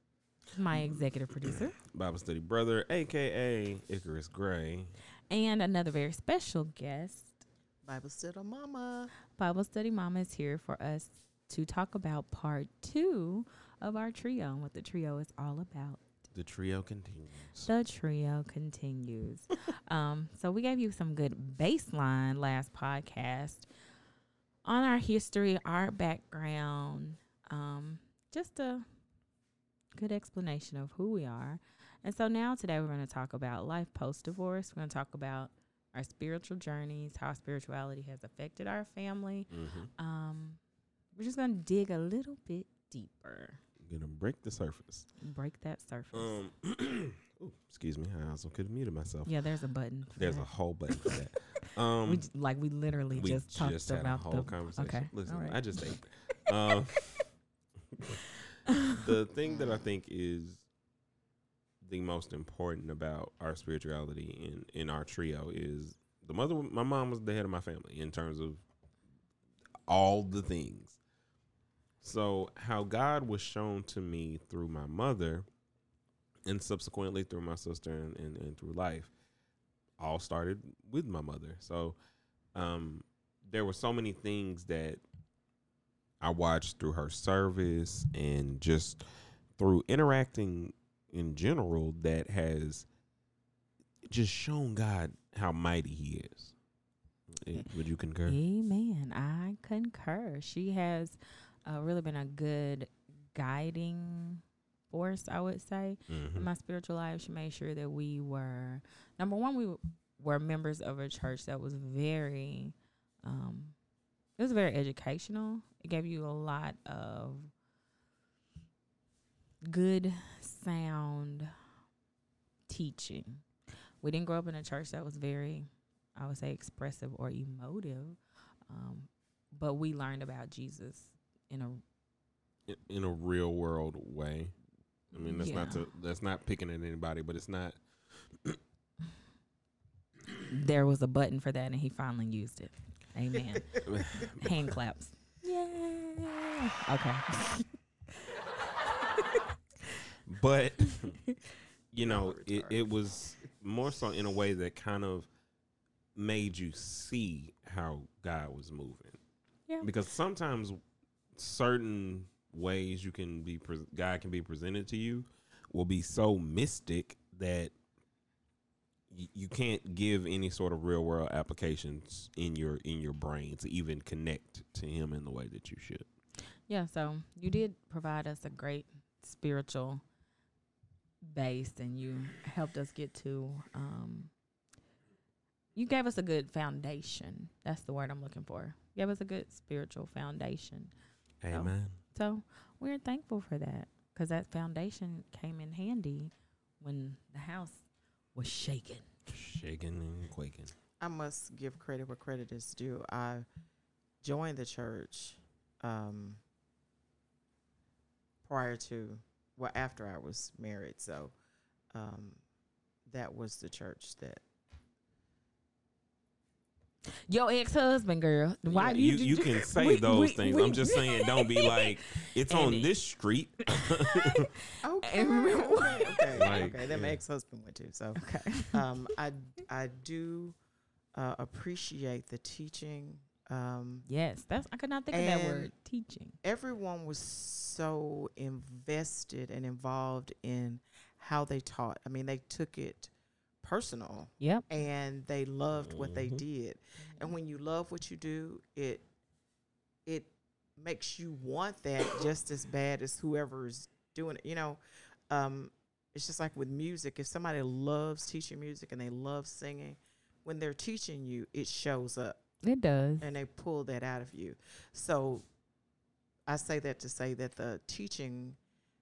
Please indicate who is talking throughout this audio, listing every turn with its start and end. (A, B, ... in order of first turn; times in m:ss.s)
0:00.5-0:01.8 A
0:00.7-0:04.9 B
0:05.3-0:07.4 A
0:07.8-0:09.1 C
0:09.3-0:16.0 A
0:16.3-0:17.7 B
0:17.6-0:23.7 A
0:24.6-0:28.8 A
0:29.9-0:40.6 A
0:39.5-0:39.9 B
0:41.2-0:43.6 A
0:43.8-0:45.0 B
0:45.2-0:46.4 A
0:46.1-0:49.3 B
0:49.2-0:55.6 A
0:50.2-0:52.2 B
0:53.1-0:57.3 B
0:58.0-0:58.3 B
0:58.7-0:59.0 A
0:58.8-1:00.6 B
1:01.8-1:08.6 B
1:09.9-1:11.0 B
1:12.0-1:15.4 B
1:16.4-1:19.1 B
1:20.0-1:22.0 B
1:22.5-1:25.0 B
1:26.2-1:29.0 B
1:29.6-1:32.8 B
1:34.1-1:36.5 B
1:37.4-1:38.4 B
1:38.2-1:53.7 A
1:46.1-1:46.5 B
1:54.4-1:57.5 A
1:59.6-2:01.5 A
2:02.7-2:03.4 A
2:04.0-2:11.8 A
2:12.7-2:14.5 B
2:15.1-2:17.8 B
2:15.1-2:15.9 A
2:18.3-2:18.6 B
2:20.5-2:27.7 A
2:23.8-2:24.7 B
2:29.0-2:30.0 A
2:30.2-2:31.2 B
2:31.2-2:31.6 A
2:31.9-2:35.3 B
2:32.0-2:33.0 C
2:36.1-2:39.2 B
2:39.8-2:40.8 B
2:41.4-2:47.7 B
2:49.1-2:56.0 B
2:56.7-3:00.0 A
3:01.2-3:04.3 A
3:05.8-3:10.9 A
3:11.4-3:12.0 B
3:11.5-3:19.0 A
3:19.3-3:20.7 B
3:21.0-3:23.4 C
3:24.2-3:26.4 C
3:28.4-3:31.3 C
3:31.9-3:32.4 C
3:33.0-3:34.4 C
3:37.3-3:42.9 A
3:38.7-3:44.5 B
3:43.8-3:44.4 A
3:44.8-3:48.2 C
3:45.0-3:46.6 A
3:46.3-3:47.2 B
3:48.2-3:48.8 A
3:48.7-3:50.6 C
3:51.1-3:54.0 C
3:54.0-3:56.4 A
3:55.1-3:55.7 C
3:56.4-4:03.1 C
4:03.6-4:09.0 C
4:04.4-4:04.6 A
4:05.7-4:06.4 B
4:07.0-4:07.3 A
4:10.0-4:22.4 C
4:22.6-4:23.2 A
4:23.2-4:25.4 C
4:26.5-4:28.6 C